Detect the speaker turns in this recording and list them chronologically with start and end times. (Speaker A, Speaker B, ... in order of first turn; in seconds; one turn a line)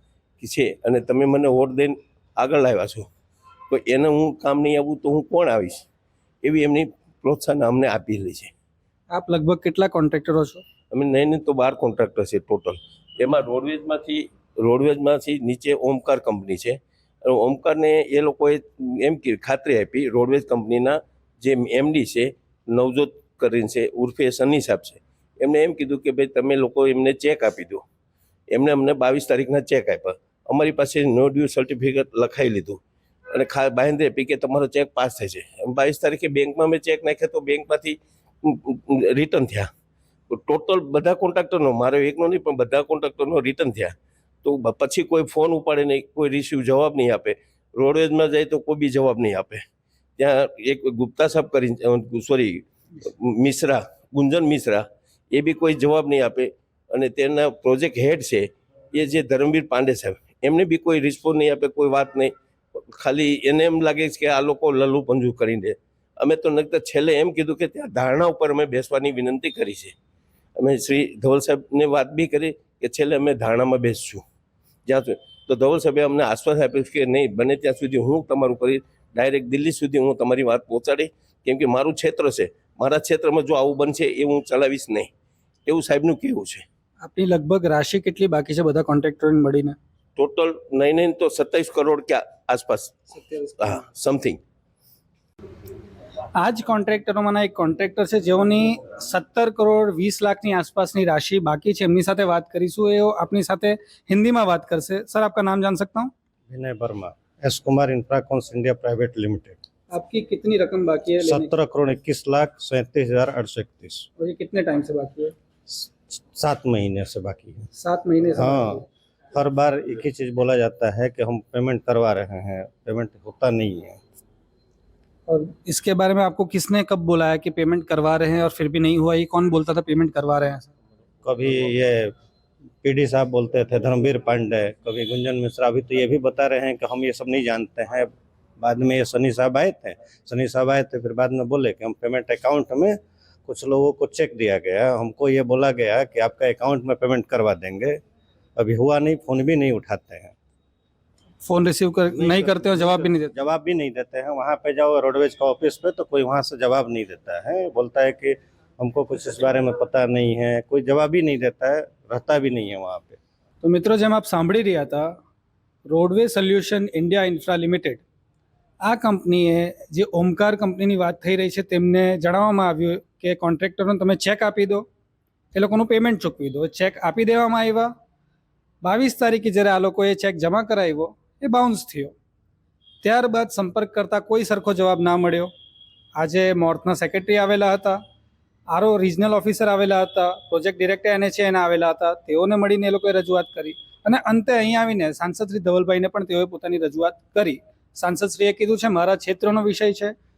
Speaker A: 0.4-3.1
Speaker A: 3.7-5.8
Speaker A: 6.4-8.5
Speaker B: 9.1-10.6
Speaker A: 10.9-27.8
Speaker A: 28.5-39.7
Speaker A: 40.3-49.6
Speaker A: 50.2-69.9
Speaker A: 70.6-74.2
Speaker A: 74.9-85.1
Speaker A: 85.7-86.6
Speaker B: 87.0-89.8
Speaker A: 90.2-93.1
Speaker B: 93.1-93.7
Speaker A: 93.6-94.4
Speaker B: 96.4-106.1
Speaker C: 106.5-109.6
Speaker B: 109.9-111.5
Speaker C: 111.2-114.1
Speaker B: 114.2-115.3
Speaker C: 115.7-117.7
Speaker B: 117.8-118.8
Speaker C: 118.4-118.8
Speaker C: 119.3-124.0
Speaker B: 125.3-130.7
Speaker C: 131.2-132.1
Speaker C: 132.8-148.0
Speaker C: 148.6-150.3
Speaker B: 151.4-153.3
Speaker C: 152.1-163.2
Speaker B: 163.6-165.1
Speaker B: 165.9-168.0
Speaker B: 168.8-174.8
Speaker B: 175.5-177.9
Speaker B: 178.8-182.1
Speaker B: 183.0-185.5
Speaker B: 186.2-188.0
Speaker B: 188.7-200.1